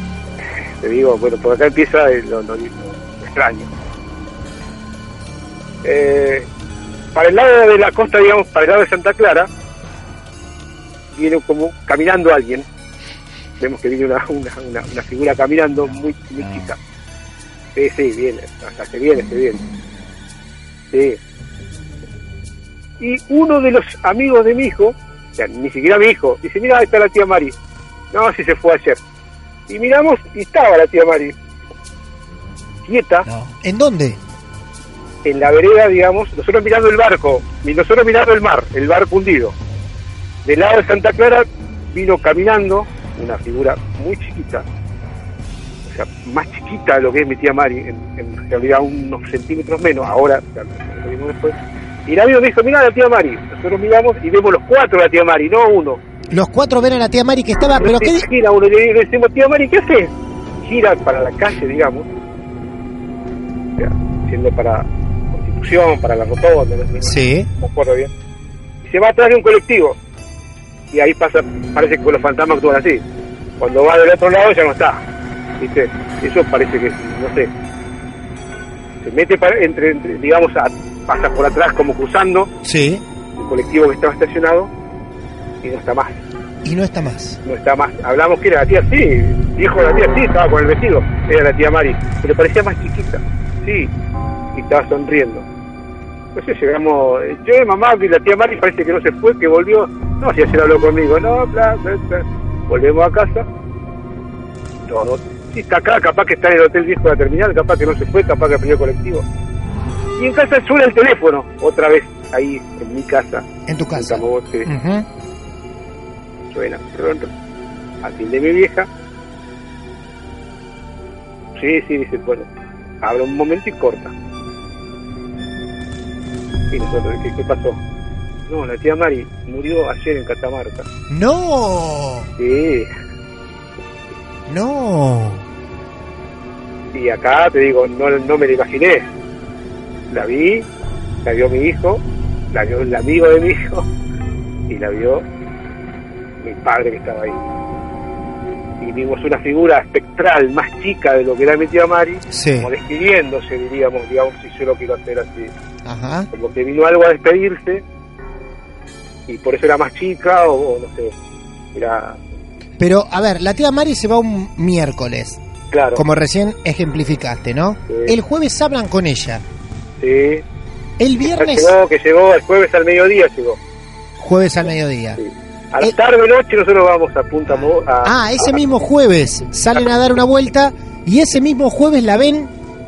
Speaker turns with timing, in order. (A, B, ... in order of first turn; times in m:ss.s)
0:00.8-0:03.7 A
0:05.8-0:06.5 A
0:07.2-0:09.5 A
0:11.1-0:12.7 A
0:13.6-0:16.8 A
0:17.8-0:19.6 A
0:20.9-0:21.2 A
0:23.0-0:27.6 A
0:28.1-0:29.0 A
0:29.7-0:31.4 A
0:32.8-0:33.3 A
0:33.6-0:34.2 B
0:35.2-0:39.6 A
0:40.4-0:44.7 A
0:45.9-0:56.0 A
0:56.3-0:58.3 B
0:57.8-1:02.1 A
1:03.8-1:08.1 A
1:07.0-1:07.5 B
1:08.8-1:10.0 A
1:10.9-1:13.0 A
1:13.6-1:15.0 A
1:15.6-1:17.5 A
1:19.0-1:22.5 A
1:22.6-1:23.0 B
1:23.4-1:24.7 A
1:25.6-1:26.2 A
1:26.6-1:27.4 B
1:27.4-1:33.9 A
1:34.5-1:35.5 A
1:36.4-1:43.5 A
1:44.9-1:49.2 A
1:50.2-1:54.7 A
1:53.7-1:55.1 B
1:56.5-1:57.3 A
1:58.0-1:58.9 A
2:01.6-2:02.5 A
2:03.0-2:04.1 A
2:06.7-2:07.8 A
2:08.5-2:10.9 A
2:11.1-2:12.3 B
2:12.4-2:12.9 A
2:14.5-2:15.4 B
2:16.9-2:19.1 A
2:20.1-2:20.7 A
2:21.2-2:23.9 A
2:24.7-2:25.2 A
2:26.4-2:27.4 A
2:28.8-2:35.5 A
2:32.3-2:32.7 B
2:35.8-2:36.3 B
2:36.3-2:37.8 A
2:39.3-2:41.1 A
2:41.7-2:42.2 A
2:42.8-2:45.4 B
2:45.7-2:46.0 A
2:46.0-2:49.4 B
2:50.0-2:50.4 A
2:51.0-2:51.8 B
2:51.2-2:53.6 A
2:54.2-2:55.2 B
2:55.2-2:58.4 A
2:58.0-3:02.5 B